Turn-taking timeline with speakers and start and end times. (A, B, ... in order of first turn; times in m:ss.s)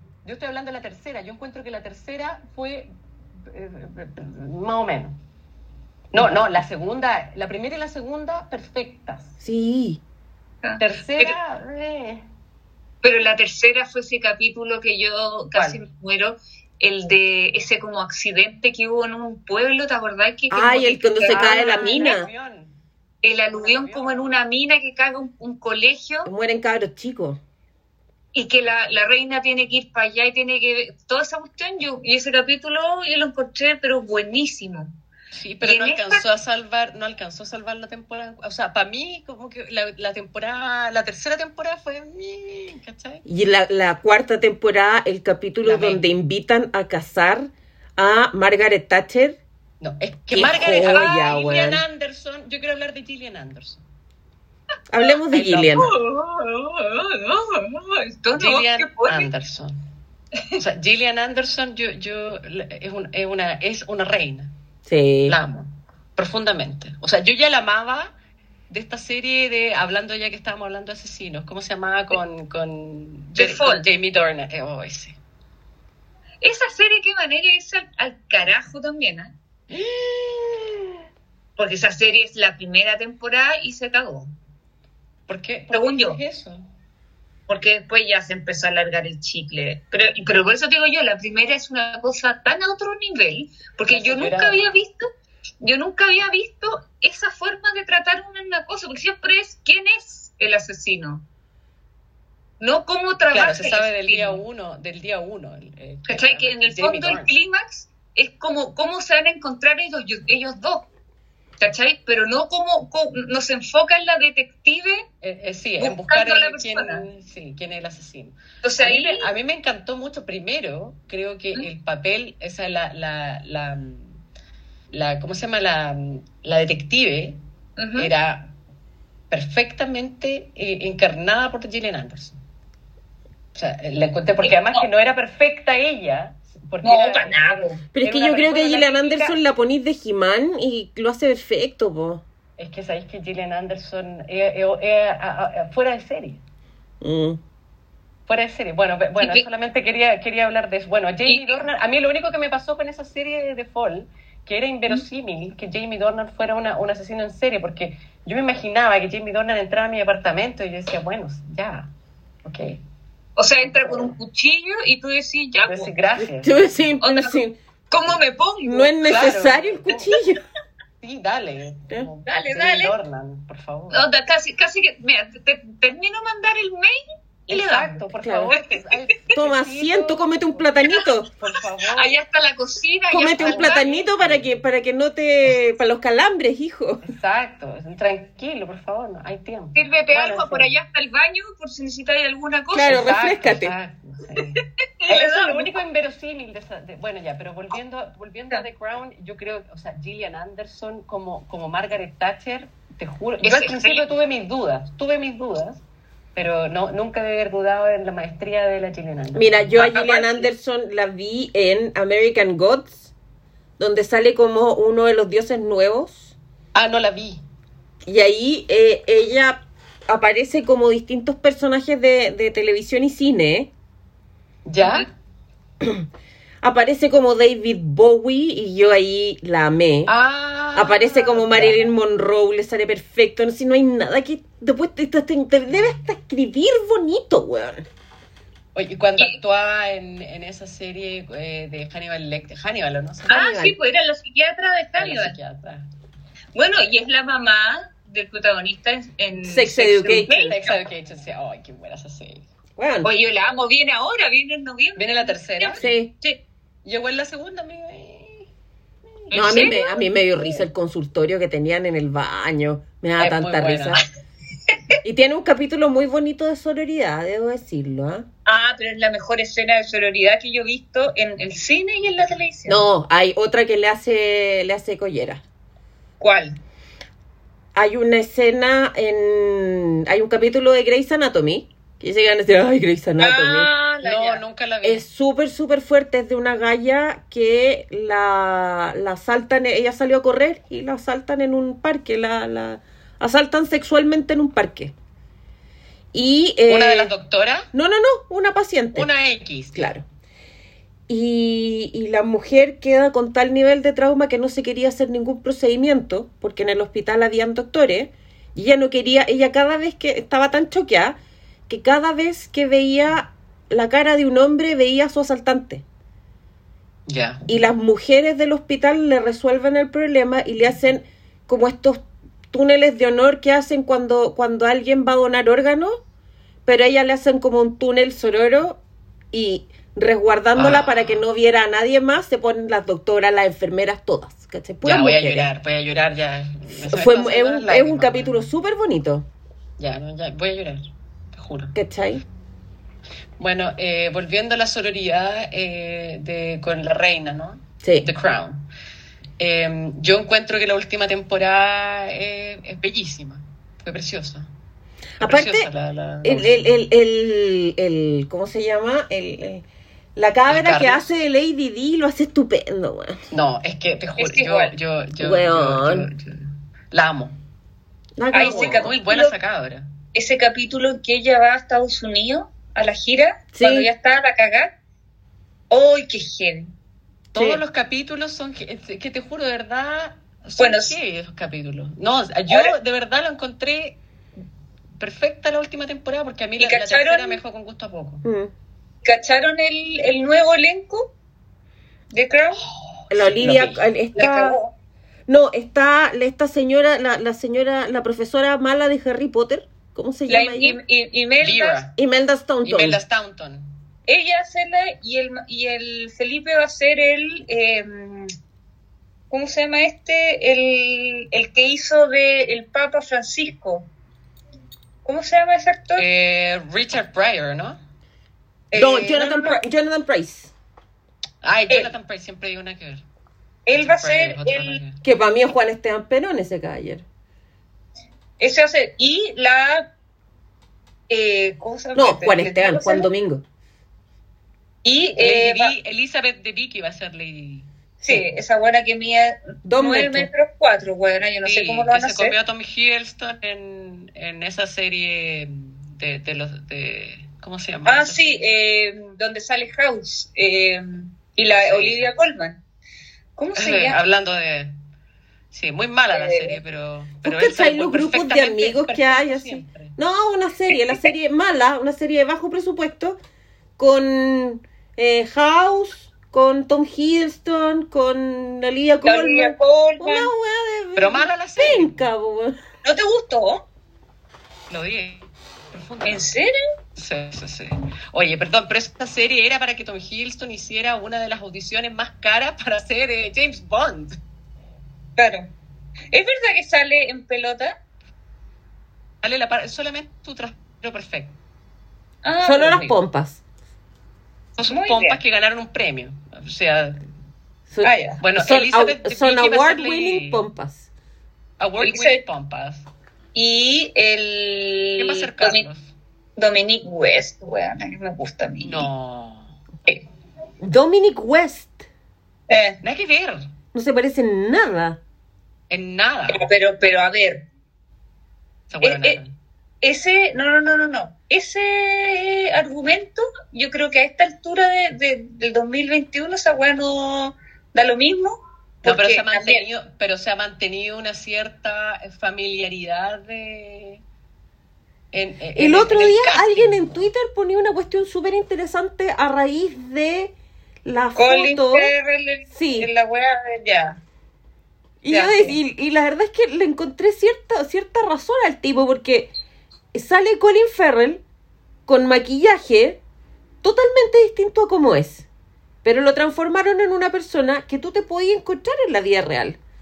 0:00.2-0:02.9 A
0:03.4-0:05.2 A
0:06.1-0:09.4 A
0:09.4-0:10.0 B
0:10.6-0:11.4 C
0:10.8-0:12.2 A
0:13.0-0:22.2 C
0:15.5-0:15.8 A
0:20.5-0:22.3 B
0:21.2-0:22.8 A
0:23.2-0:26.3 C
0:23.3-0:24.4 A
0:26.3-0:27.4 B
0:28.3-0:34.9 C
0:35.3-0:43.2 A
0:35.6-0:36.2 C
0:43.3-0:49.4 B
0:45.6-0:46.0 A
0:49.8-0:53.8 A
0:50.3-0:51.8 B
0:50.7-0:51.2 C
0:54.9-0:55.9 B
0:55.3-0:55.9 A
0:55.8-0:59.3 C
0:58.4-0:59.8 A
1:00.6-1:04.5 A
1:04.9-1:05.4 B
1:05.3-1:08.1 A
1:08.7-1:15.2 A
1:13.4-1:13.9 C
1:16.4-1:19.3 C
1:19.7-1:20.8 A
1:21.6-1:24.3 C
1:25.3-1:26.7 A
1:25.7-1:26.2 C
1:27.5-1:35.0 C
1:33.9-1:34.7 A
1:35.6-1:41.2 C
1:42.6-1:44.4 C
1:43.3-1:47.4 A
1:46.1-1:50.9 C
1:51.6-1:55.0 C
1:55.2-2:04.2 A
1:55.8-1:57.0 C
1:58.6-1:59.3 C
2:04.9-2:07.4 A
2:07.8-2:08.1 C
2:08.0-2:08.5 A
2:09.3-2:12.4 A
2:13.6-2:19.4 A
2:14.4-2:14.9 C
2:16.8-2:17.8 C
2:17.9-2:22.2 B
2:22.6-2:26.4 A
2:27.0-2:27.4 B
2:28.3-2:41.9 A
2:29.2-2:29.4 C
2:31.3-2:31.6 C
2:42.4-2:42.8 A
2:43.4-2:45.9 C
2:43.7-2:44.2 A
2:45.6-2:46.8 A
2:46.2-2:47.6 B
2:47.0-2:49.0 C
2:48.6-2:50.4 B
2:49.0-2:50.1 A
2:51.0-2:54.0 A
2:52.3-2:53.0 C
2:53.9-2:58.8 C
2:57.5-3:02.1 A
2:58.2-2:58.5 B
2:59.4-3:01.3 B
3:01.9-3:03.9 C
3:03.1-3:07.1 B
3:03.4-3:04.5 A
3:07.0-3:10.7 A
3:09.8-3:13.1 C
3:12.7-3:13.7 B
3:12.9-3:25.8 A
3:15.0-3:15.7 C
3:23.4-3:24.1 C
3:26.4-3:30.1 A
3:29.4-3:33.1 B
3:29.8-3:30.4 C
3:33.8-3:36.3 B
3:36.7-3:37.4 A
3:38.1-3:43.7 B
3:44.7-3:45.1 A
3:45.8-3:46.1 B
3:46.6-3:50.1 B
3:50.1-3:51.9 A
3:50.8-3:57.9 B
3:58.8-4:03.4 A
4:03.3-4:03.8 B
4:03.3-4:05.4 C
4:05.0-4:05.9 A
4:06.6-4:10.8 C
4:09.4-4:10.6 B
4:10.5-4:12.5 A
4:12.8-4:13.1 B
4:13.0-4:16.4 C
4:15.0-4:15.9 A
4:15.8-4:16.1 B
4:16.8-4:18.5 A
4:19.1-4:19.8 A
4:19.3-4:20.0 C
4:19.3-4:24.0 B
4:23.2-4:24.0 A
4:25.0-4:28.3 B
4:28.5-4:32.8 C
4:32.7-4:35.4 B
4:36.2-4:36.6 C
4:37.8-4:43.7 B
4:43.2-4:44.4 C
4:44.0-4:45.0 A
4:44.8-4:54.9 B
4:56.1-4:57.1 B
4:56.7-4:57.7 A
4:57.7-4:59.1 B
4:59.0-4:59.9 A
4:59.8-5:00.0 B
5:01.1-5:11.2 B
5:11.7-5:15.8 B
5:17.1-5:17.5 A
5:17.5-5:26.0 B
5:26.7-5:28.8 B
5:29.3-5:35.5 B
5:30.6-5:31.2 A
5:34.8-5:38.4 A
5:36.9-5:39.3 B
5:39.8-5:41.8 A
5:41.8-5:42.2 B
5:43.4-5:48.6 A
5:47.8-5:48.1 B
5:49.4-5:54.5 A
5:55.2-5:55.7 B
5:55.2-5:56.8 A
5:56.2-5:59.6 B
6:00.2-6:03.2 B
6:00.5-6:01.1 A
6:03.3-6:07.4 A
6:04.2-6:04.7 C
6:05.2-6:06.1 B
6:08.2-6:08.9 B
6:08.3-6:09.4 C
6:08.4-6:09.9 A
6:10.1-6:14.7 C
6:13.5-6:13.9 B
6:15.7-6:16.7 C
6:17.3-6:24.0 A
6:17.4-6:17.6 B
6:20.6-6:21.0 C
6:22.5-6:22.8 C
6:25.0-6:28.2 A
6:26.6-6:27.4 C
6:28.2-6:28.5 B
6:29.0-6:31.1 C
6:32.1-6:32.6 C
6:32.6-6:33.8 A
6:33.1-6:34.6 B
6:34.2-6:34.7 C
6:35.3-6:40.8 B
6:40.3-6:41.9 C
6:41.4-6:41.9 A
6:42.0-6:43.0 B
6:42.6-6:43.7 A
6:44.1-6:48.3 C
6:49.3-6:53.9 C
6:55.0-6:56.0 C
6:56.0-6:57.8 A
6:58.7-6:59.6 C
6:58.7-7:00.5 B
7:01.4-7:03.0 A
7:03.7-7:04.8 C
7:03.7-7:05.0 A
7:05.0-7:07.0 B
7:08.4-7:09.9 C
7:11.1-7:13.1 C
7:12.0-7:13.4 B
7:14.8-7:15.7 C
7:15.2-7:17.7 A
7:18.0-7:22.4 C
7:19.7-7:20.3 B
7:21.4-7:28.4 A
7:27.9-7:32.6 C
7:31.5-7:32.1 A
7:33.4-7:34.0 C
7:33.6-7:34.7 A
7:35.5-7:40.0 A
7:36.1-7:36.6 C
7:37.2-7:43.2 B
7:43.8-7:52.6 B
7:49.0-7:50.3 C
7:51.0-7:52.0 A
7:52.8-7:53.6 C
7:54.7-7:56.3 A
7:56.0-7:56.5 C
7:57.0-8:04.2 A
8:05.2-8:05.5 C
8:06.1-8:07.8 C
8:09.2-8:11.4 A
8:12.2-8:13.0 C
8:12.4-8:13.4 B
8:14.6-8:17.0 A
8:14.7-8:15.2 C
8:17.7-8:20.9 B
8:17.8-8:18.2 C
8:18.2-8:20.4 A
8:21.6-8:22.9 A
8:21.8-8:22.2 C
8:23.4-8:25.7 C
8:25.0-8:25.9 A
8:26.4-8:28.9 C
8:28.6-8:29.6 A
8:30.6-8:31.9 B
8:32.5-8:32.8 C
8:32.8-8:33.5 A
8:33.7-8:35.0 B
8:35.7-8:36.4 A
8:36.3-8:37.4 C
8:38.7-8:39.3 A
8:38.8-8:39.2 C
8:39.8-8:49.6 C
8:48.8-8:54.0 A
8:55.1-8:57.1 A
8:55.6-9:00.3 B
9:00.8-9:01.9 B
9:01.2-9:04.0 C
9:02.5-9:02.9 B
9:05.0-9:09.3 B
9:05.1-9:05.6 C
9:09.9-9:11.2 B
9:11.9-9:13.0 B
9:13.6-9:15.3 B
9:15.8-9:19.6 B